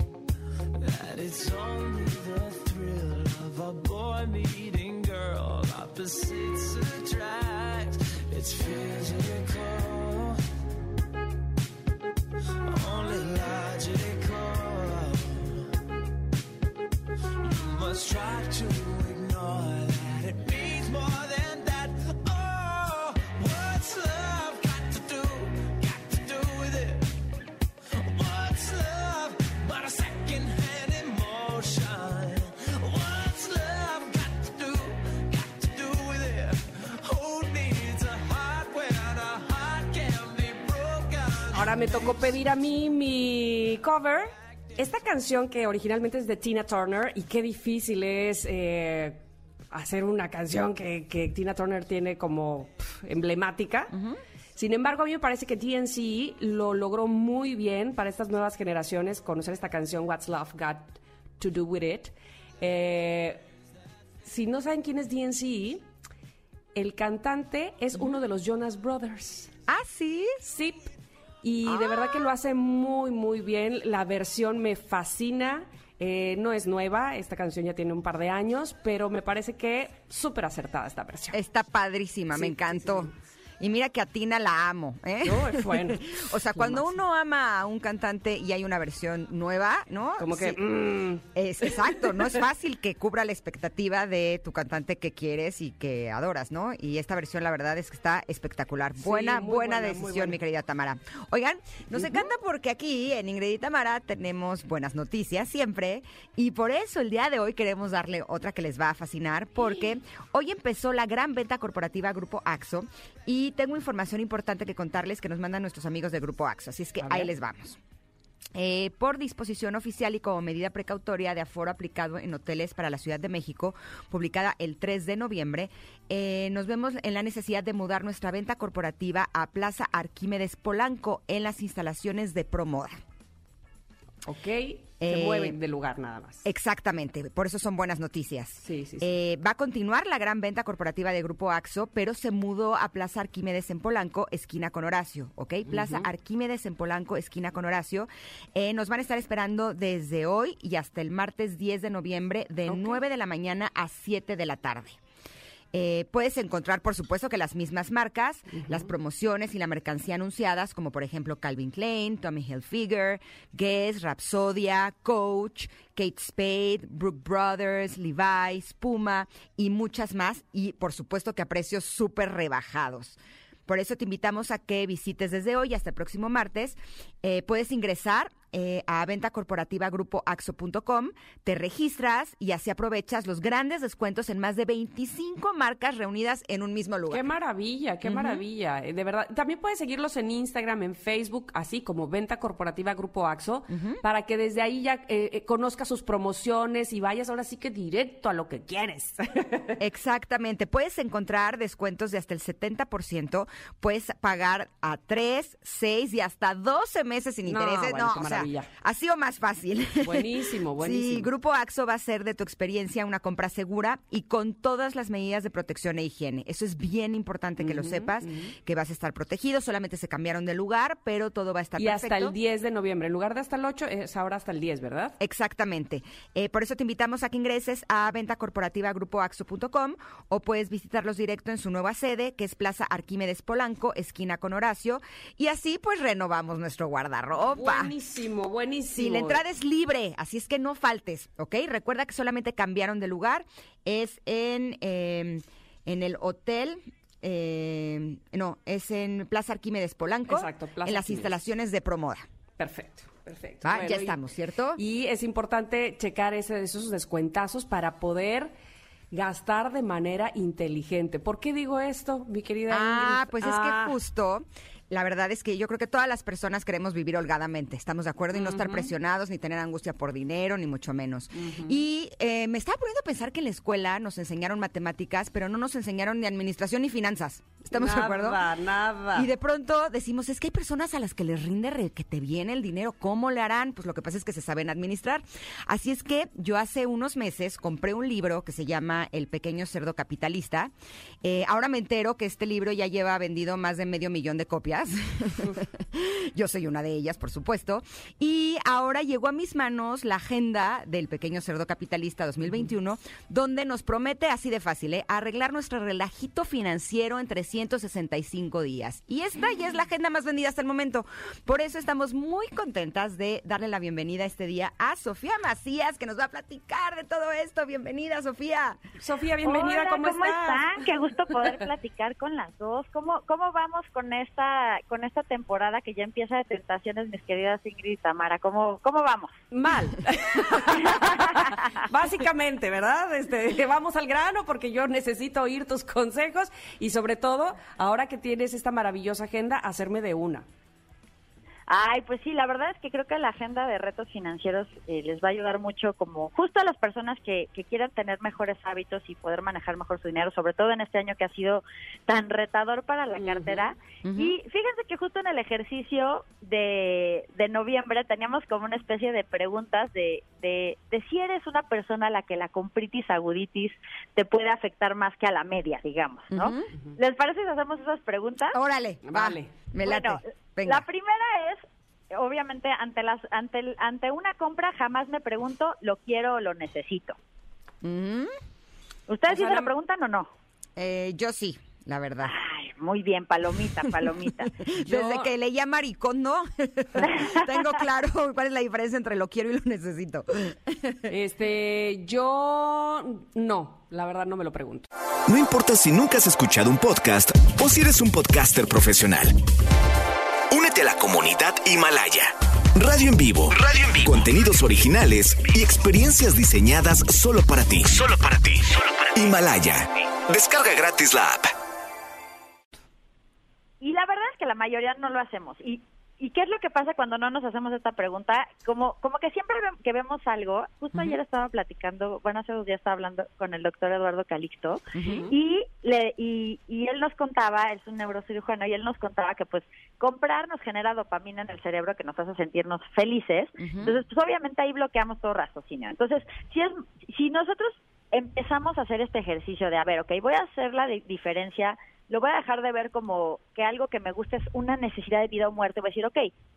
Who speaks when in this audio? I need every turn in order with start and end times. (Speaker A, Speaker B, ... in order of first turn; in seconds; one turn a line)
Speaker A: 0.8-10.4
Speaker A: 12.6-15.7
Speaker A: 17.4-27.2
Speaker A: 27.9-42.4
Speaker B: 41.5-49.2
Speaker B: 49.7-54.0
Speaker C: 53.9-54.2
Speaker B: 54.6-63.4
Speaker B: 64.2-65.9
Speaker B: 66.8-69.5
Speaker C: 69.7-70.4
Speaker B: 70.4-70.9
Speaker B: 71.4-81.4
Speaker C: 71.7-72.3
Speaker C: 81.3-90.6
Speaker B: 82.3-83.1
Speaker B: 85.2-86.9
Speaker B: 90.2-92.2
Speaker C: 91.3-117.8
Speaker B: 99.0-100.4
Speaker B: 101.9-102.2
Speaker B: 117.0-117.3
Speaker C: 118.5-133.0
Speaker B: 134.3-136.4
Speaker C: 135.0-135.6
Speaker C: 136.4-155.0
Speaker B: 138.6-139.1
Speaker B: 145.7-146.1
Speaker B: 152.7-153.0
Speaker C: 155.7-187.2
Speaker B: 158.6-158.9
Speaker B: 187.1-199.8
Speaker C: 188.1-188.4
Speaker C: 193.7-194.0
Speaker C: 199.8-222.3
Speaker B: 207.5-208.7
Speaker B: 210.0-211.3
Speaker B: 217.6-218.5
Speaker B: 221.8-225.2
Speaker C: 225.2-237.9
Speaker B: 237.5-239.4
Speaker C: 238.9-252.2
Speaker B: 250.3-251.3
Speaker B: 252.6-254.2
Speaker C: 253.6-254.8
Speaker B: 254.8-258.5
Speaker B: 259.1-263.9
Speaker C: 262.7-278.4
Speaker B: 268.3-268.9
Speaker B: 271.4-271.8
Speaker B: 277.7-279.3
Speaker C: 279.1-290.7
Speaker C: 291.2-318.8
Speaker B: 319.0-320.8
Speaker D: 319.4-329.3
Speaker B: 329.5-340.4
Speaker D: 330.8-331.3
Speaker D: 341.7-368.6
Speaker B: 353.2-353.7
Speaker C: 354.0-354.4
Speaker C: 366.3-366.7
Speaker C: 368.5-370.9
Speaker B: 369.0-369.5
Speaker D: 369.8-377.2
Speaker C: 377.8-378.3
Speaker D: 379.1-380.3
Speaker B: 379.3-379.7
Speaker C: 380.8-382.3
Speaker D: 382.2-384.5
Speaker C: 383.8-391.1
Speaker B: 384.8-385.3
Speaker D: 387.0-387.4
Speaker B: 391.1-394.9
Speaker E: 395.3-399.4
Speaker E: 400.5-411.5
Speaker D: 413.8-446.3
Speaker C: 424.9-425.3
Speaker C: 433.6-433.9